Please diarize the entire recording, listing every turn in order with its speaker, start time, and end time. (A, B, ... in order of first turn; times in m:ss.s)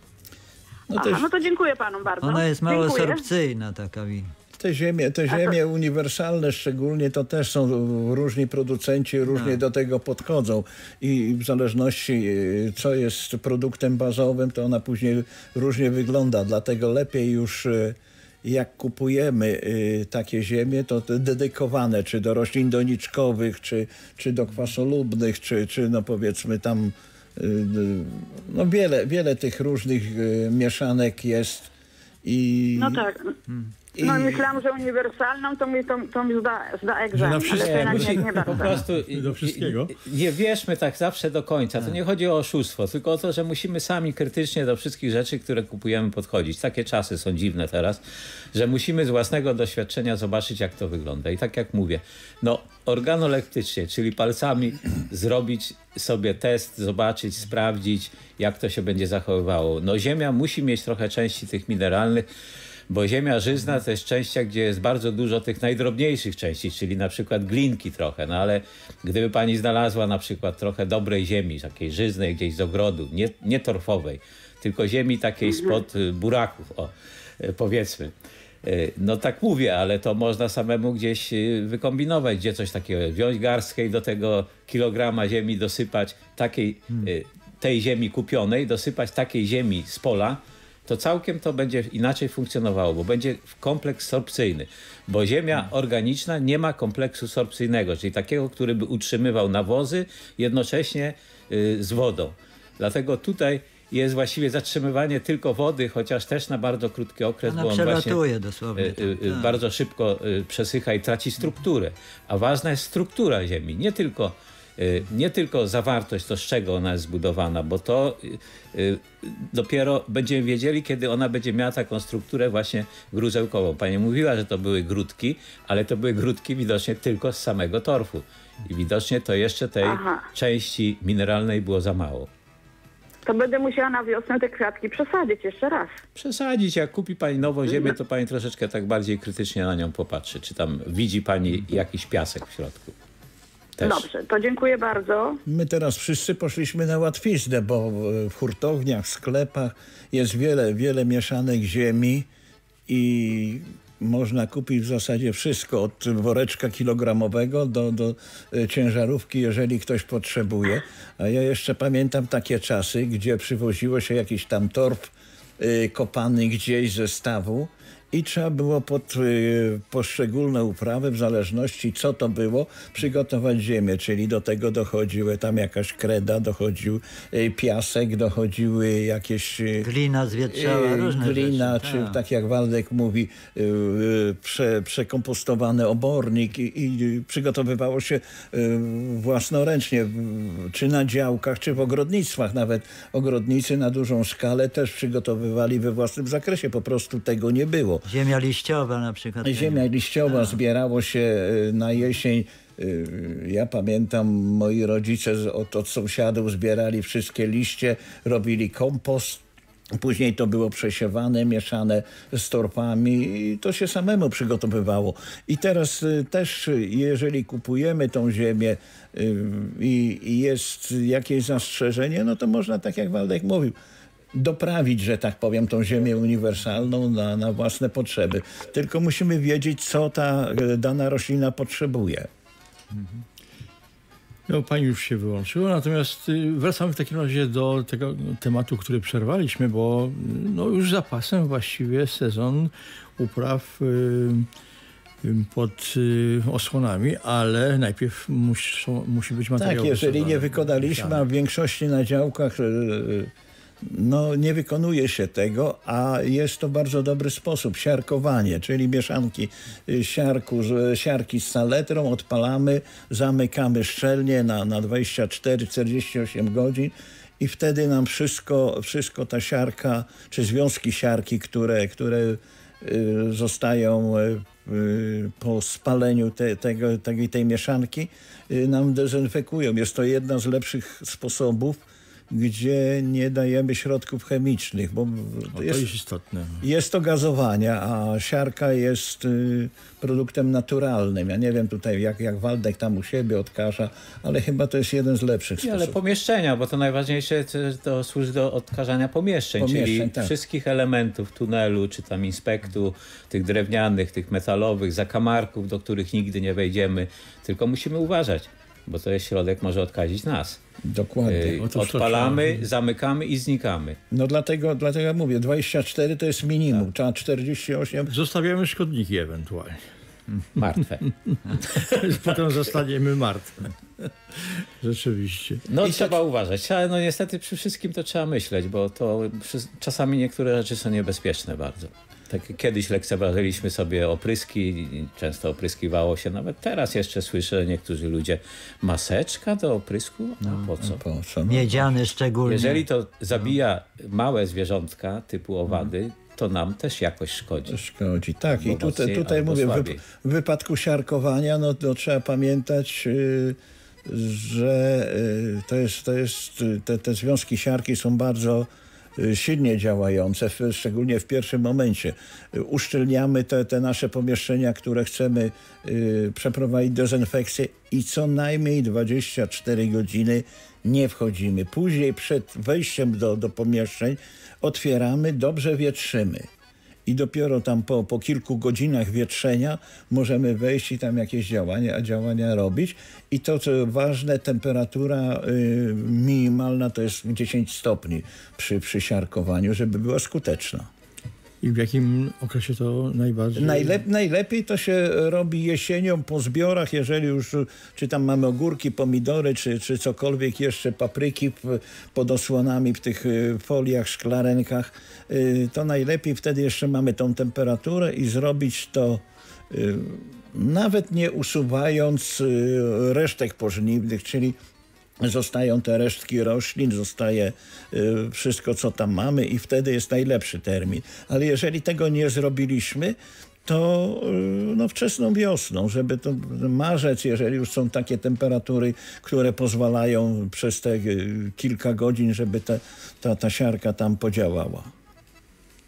0:00.9-0:01.3 A
0:00.9-0:03.2 B
0:02.2-0:04.3 C
0:04.6-0:31.7 A
0:09.3-0:09.6 C
0:32.2-0:33.1 A
0:32.8-0:33.2 B
0:34.0-0:34.5 A
0:34.0-0:38.8 B
0:37.1-0:40.0 D
0:37.5-0:48.0 E
0:48.5-1:02.3 E
1:02.9-1:18.1 E
1:15.4-1:15.8 B
1:18.6-1:48.2 E
1:47.5-1:49.6 C
1:48.8-2:12.3 E
2:09.8-2:10.2 B
2:13.2-2:16.0 B
2:16.2-2:23.0 E
2:23.8-2:24.1 E
2:23.8-2:25.4 B
2:25.5-2:32.3 A
2:32.9-2:59.9 A
2:59.8-3:02.2 C
3:00.5-3:18.1 A
3:18.1-3:20.6 C
3:19.4-3:29.4 A
3:30.0-3:43.8 A
3:44.3-3:52.3 A
3:54.5-4:04.5 D
4:05.2-4:11.2 D
4:09.6-4:45.9 A
4:45.5-4:46.6 D
4:46.6-4:56.0 A
4:55.6-5:10.6 E
4:59.6-5:00.3 A
5:10.8-5:11.7 A
5:11.3-5:14.0 E
5:11.6-5:12.7 D
5:14.1-5:18.1 A
5:18.1-5:19.9 D
5:20.6-5:21.0 E
5:21.3-5:25.6 D
5:21.6-5:22.4 E
5:25.7-5:41.0 E
5:25.8-5:26.2 A
5:40.8-5:41.9 A
5:41.5-5:42.8 C
5:42.4-5:47.8 E
5:47.7-6:16.5 A
5:48.6-5:50.0 E
6:17.1-6:30.9 A
6:31.6-6:34.0 D
6:33.6-6:54.6 A
6:55.2-7:14.9 A